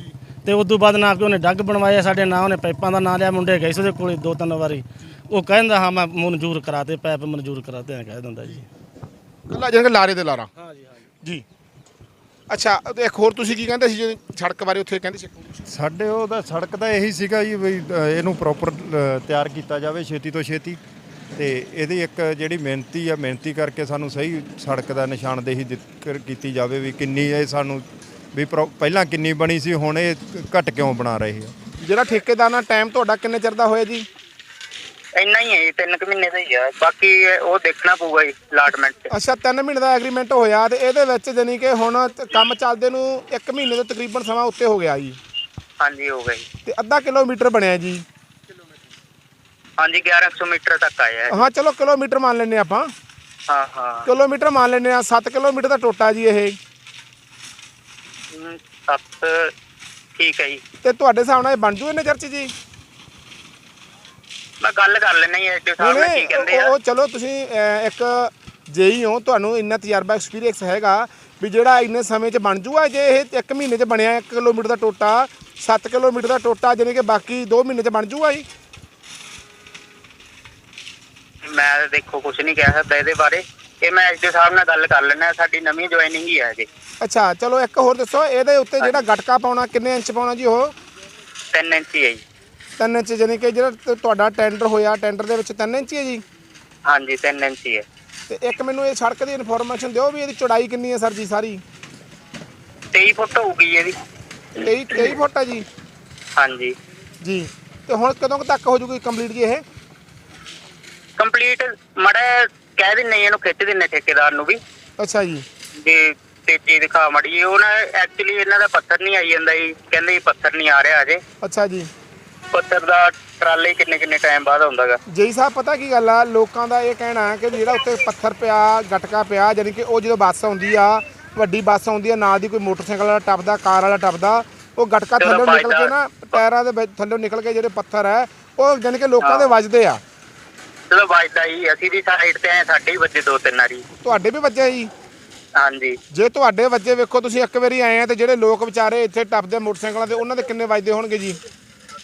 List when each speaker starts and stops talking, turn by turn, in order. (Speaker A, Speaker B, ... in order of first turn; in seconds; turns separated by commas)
Speaker A: 0.4-8.6, Speaker B: 9.5-10.5, Speaker A: 10.6-11.0, Speaker B: 12.5-15.6, Speaker C: 15.7-20.8, Speaker C: 21.4-31.5, Speaker B: 31.8-34.0, Speaker D: 35.1-39.1, Speaker B: 39.1-45.2, Speaker D: 45.8-46.4, Speaker B: 46.6-48.0, Speaker D: 49.8-51.4, Speaker B: 51.3-52.9, Speaker D: 53.5-54.1, Speaker B: 54.0-56.5, Speaker D: 58.3-59.5, Speaker D: 60.1-60.6, Speaker B: 60.8-62.5, Speaker D: 64.6-66.7, Speaker B: 65.8-78.4, Speaker D: 81.4-86.7, Speaker B: 87.0-90.7, Speaker D: 91.5-92.2, Speaker B: 92.8-96.2, Speaker D: 96.9-97.8, Speaker B: 98.3-101.6, Speaker D: 102.9-103.9, Speaker B: 104.6-105.6, Speaker D: 106.3-106.8, Speaker B: 107.2-109.6, Speaker D: 111.2-114.6, Speaker B: 115.0-115.4, Speaker D: 115.8-121.2, Speaker B: 121.4-121.9, Speaker D: 122.5-125.0, Speaker B: 125.1-140.0, Speaker D: 135.2-135.9, Speaker D: 139.2-139.6, Speaker D: 140.9-143.8, Speaker B: 144.0-144.9, Speaker D: 145.6-146.0, Speaker B: 146.1-151.4